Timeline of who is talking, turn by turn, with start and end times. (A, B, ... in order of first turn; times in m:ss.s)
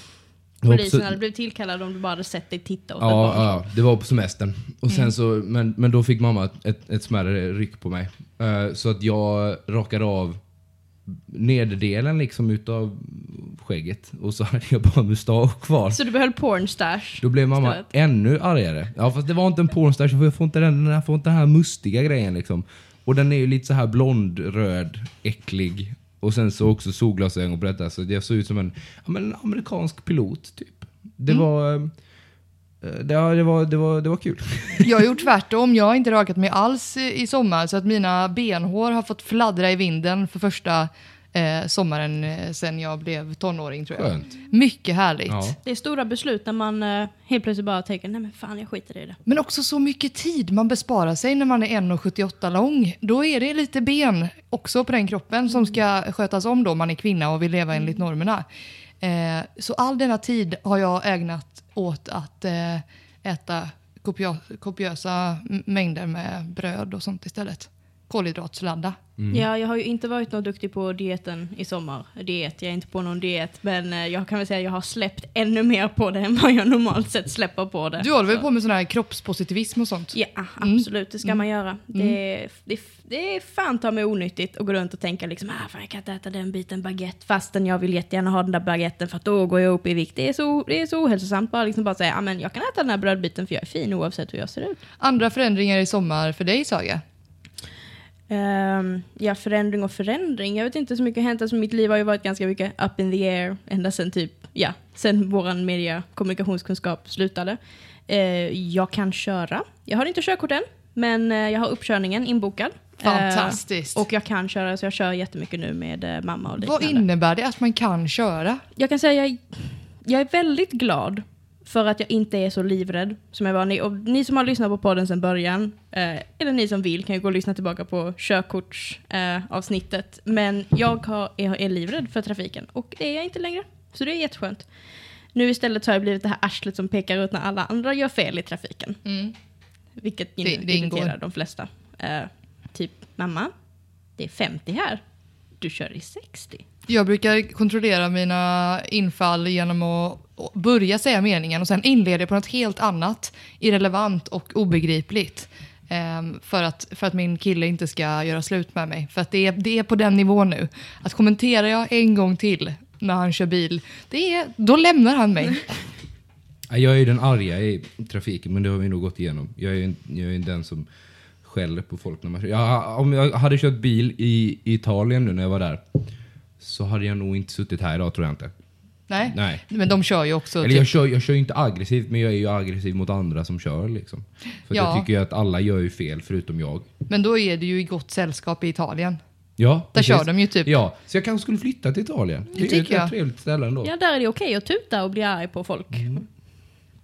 0:00.6-0:01.2 A
0:00.6-0:03.6 B
0:03.0-0:10.4 A
0:11.1-0:16.0 A
0:15.9-0:17.8 B
0:17.2-0:31.9 A
0:32.8-0:34.9 A
0:34.8-0:45.6 C
0:44.0-0:44.3 A
0:45.3-0:45.6 A
0:45.6-0:49.2 B
0:49.3-0:58.4 C
0:59.0-1:09.0 C
1:09.2-1:09.4 A
1:09.3-1:18.4 B
1:18.0-1:21.4 C
1:20.1-1:34.8 B
1:35.0-1:37.0 C
1:38.3-1:57.0 B
1:53.0-1:54.1 C
1:56.6-1:58.6 C
1:58.8-2:14.7 B
2:15.4-2:19.0 B
2:19.0-2:19.3 C
2:20.0-2:23.5 B
2:20.4-2:21.2 C
2:24.2-2:25.0 B
2:25.6-2:26.6 B
2:26.9-2:45.8 C
2:46.7-2:50.9 A
2:51.4-2:55.8 A
2:56.6-2:58.5 A
2:59.1-3:00.9 C
2:59.3-2:59.6 A
3:00.6-3:06.9 A
3:04.7-3:05.1 C
3:07.1-3:09.2 C
3:09.6-3:13.9 A
3:09.9-3:10.7 C
3:12.6-3:13.1 C
3:13.8-3:16.2 B
3:15.9-3:16.2 A